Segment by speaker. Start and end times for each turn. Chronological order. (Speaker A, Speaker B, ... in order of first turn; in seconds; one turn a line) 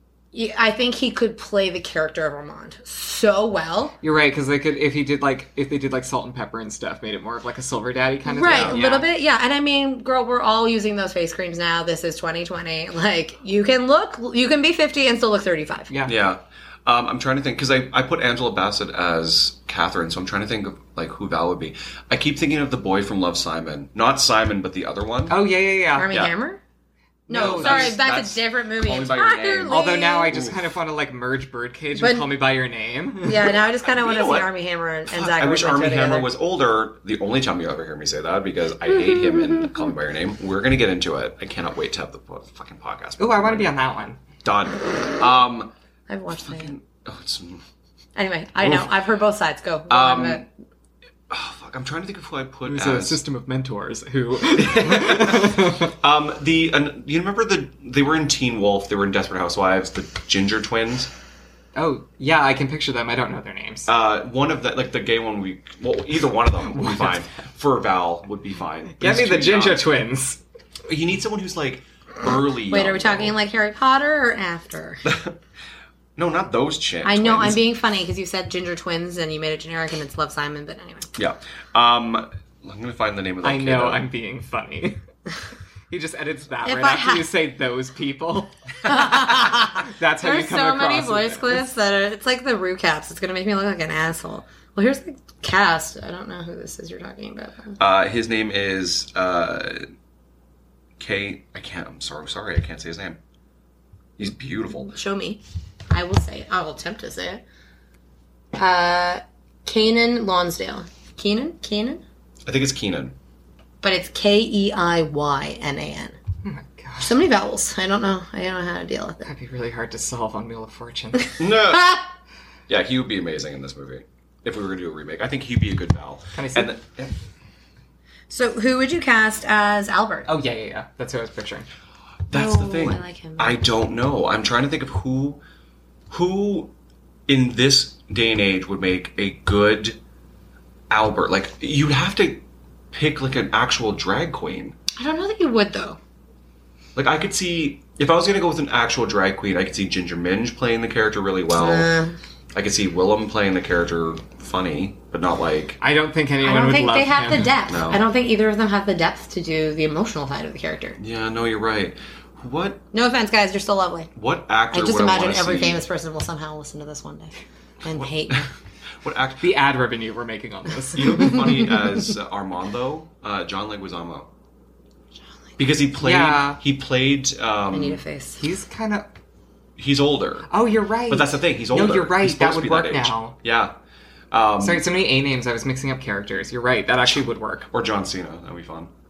Speaker A: 0.3-3.9
Speaker B: 4.0-9.1
Speaker A: 8.3-15.9
Speaker C: 8.5-8.8
Speaker C: 16.1-25.4
Speaker B: 25.3-26.1
Speaker A: 25.9-26.6
Speaker A: 27.3-30.4
Speaker C: 27.3-30.6
Speaker B: 27.3-28.0
Speaker B: 29.7-33.5
Speaker A: 32.0-32.3
Speaker A: 33.2-36.3
Speaker C: 33.8-34.5
Speaker C: 35.1-43.8
Speaker A: 39.4-39.7
Speaker B: 43.2-44.2
Speaker C: 44.4-45.7
Speaker A: 46.1-46.7
Speaker C: 46.3-47.6
Speaker A: 48.2-50.4
Speaker C: 48.6-48.9
Speaker C: 49.9-50.5
Speaker C: 51.3-53.2
Speaker B: 52.6-55.9
Speaker C: 54.8-55.3
Speaker C: 56.0-61.1
Speaker B: 61.8-63.9
Speaker C: 63.9-69.8
Speaker B: 66.8-67.4
Speaker B: 68.9-70.4
Speaker C: 70.8-73.4
Speaker A: 72.7-75.0
Speaker C: 75.0-75.3
Speaker C: 76.2-77.6
Speaker A: 77.0-81.1
Speaker C: 81.2-84.1
Speaker B: 83.4-85.0
Speaker B: 85.9-91.7
Speaker A: 86.6-87.3
Speaker A: 88.8-97.8
Speaker C: 97.8-99.8
Speaker C: 101.0-103.2
Speaker C: 104.2-104.9
Speaker A: 104.8-107.4
Speaker A: 108.6-112.0
Speaker C: 112.5-113.2
Speaker A: 113.8-116.2
Speaker B: 116.5-117.2
Speaker A: 117.0-119.3
Speaker B: 119.2-121.4
Speaker C: 121.4-122.0
Speaker C: 122.7-127.1
Speaker B: 126.4-126.7
Speaker A: 128.3-130.3
Speaker B: 130.3-131.7
Speaker C: 132.3-135.4
Speaker A: 132.3-133.6
Speaker C: 136.1-136.7
Speaker C: 137.3-140.0
Speaker C: 140.9-144.8
Speaker A: 145.0-146.0
Speaker C: 147.0-151.9
Speaker A: 151.6-152.2
Speaker C: 152.5-155.8
Speaker B: 155.8-157.6
Speaker A: 156.4-161.0
Speaker C: 157.7-158.0
Speaker C: 161.0-162.8
Speaker A: 162.9-164.1
Speaker C: 164.2-165.8
Speaker A: 164.7-167.3
Speaker A: 167.8-168.5
Speaker C: 167.9-168.4
Speaker C: 169.0-169.5
Speaker B: 169.4-171.6
Speaker C: 170.9-174.3
Speaker C: 175.6-178.0
Speaker B: 176.0-176.6
Speaker A: 177.7-178.4
Speaker B: 178.4-179.1
Speaker C: 179.8-180.5
Speaker B: 180.5-183.4
Speaker C: 181.1-183.8
Speaker C: 184.3-184.8
Speaker B: 184.6-187.7
Speaker C: 187.1-188.9